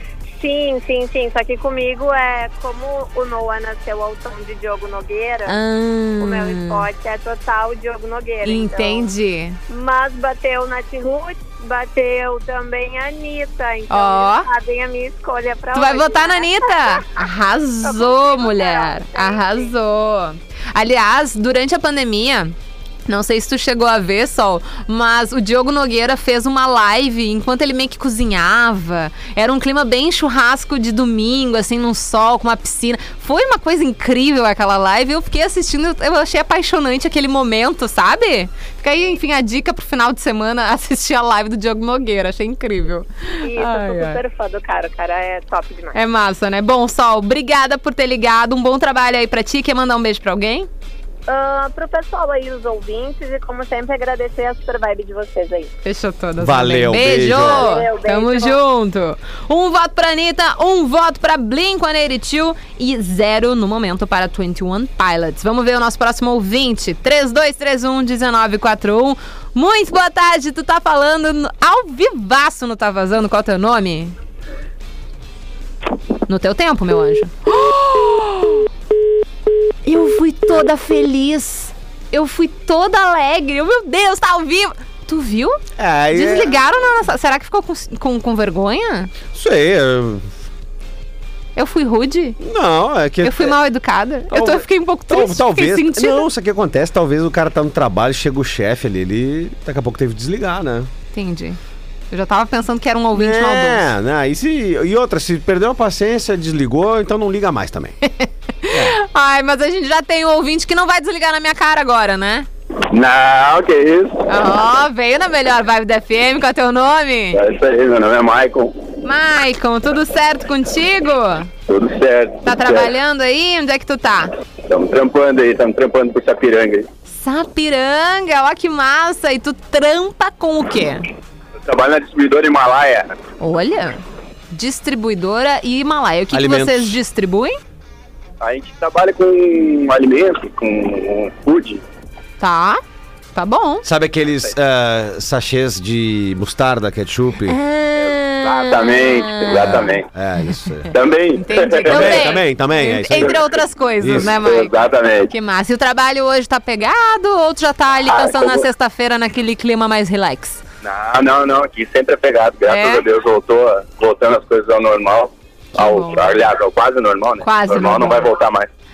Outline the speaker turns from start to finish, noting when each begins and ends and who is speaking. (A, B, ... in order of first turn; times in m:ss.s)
0:00.4-0:05.6 A
0:05.5-0:06.9 B
0:06.2-0:09.1 A
0:08.4-0:09.6 B
0:09.7-0:17.1 A
0:13.9-0:14.5 B
0:15.7-0:22.6 B
0:17.8-0:19.7 A
0:23.1-0:44.2 B
0:43.4-0:46.0 A
0:45.9-0:50.7 B
0:51.3-0:55.7 A
0:55.8-1:14.1 B
0:56.4-0:57.7 C
0:57.2-0:58.6 A
1:16.3-1:18.6 B
1:19.8-1:25.6 B
1:25.8-1:26.6 C
1:26.1-1:29.1 B
1:29.3-1:30.3 C
1:31.6-1:32.4 B
1:32.4-1:33.6 C
1:33.2-1:36.3 B
1:34.3-1:40.9 C
1:41.1-1:41.6 B
1:42.1-1:43.8 B
1:43.1-1:48.0 C
1:48.0-1:52.5 B
1:48.7-1:49.0 C
1:52.9-1:54.2 D
1:54.3-1:57.4 B
1:57.3-1:58.8 D
1:59.0-2:01.5 B
2:01.7-2:02.9 D
2:02.4-2:04.3 B
2:04.7-2:06.9 D
2:07.1-2:11.1 B
2:11.6-2:13.1 D
2:13.4-2:17.6 B
2:16.3-2:17.0 C
2:18.4-2:21.8 D
2:22.4-2:22.8 B
2:23.4-2:23.8 B
2:23.8-2:27.6 C
2:27.5-2:30.0 B
2:28.0-2:30.1 D
2:29.7-2:30.9 C
2:30.9-2:32.4 D
2:31.4-2:34.7 B
2:31.9-2:33.4 C
2:34.0-2:34.3 C
2:34.2-2:35.3 D
2:35.3-2:40.6 B
2:38.1-2:38.6 D
2:40.8-2:48.7 D
2:42.7-2:43.0 B
2:45.8-2:46.4 B
2:47.4-2:48.3 B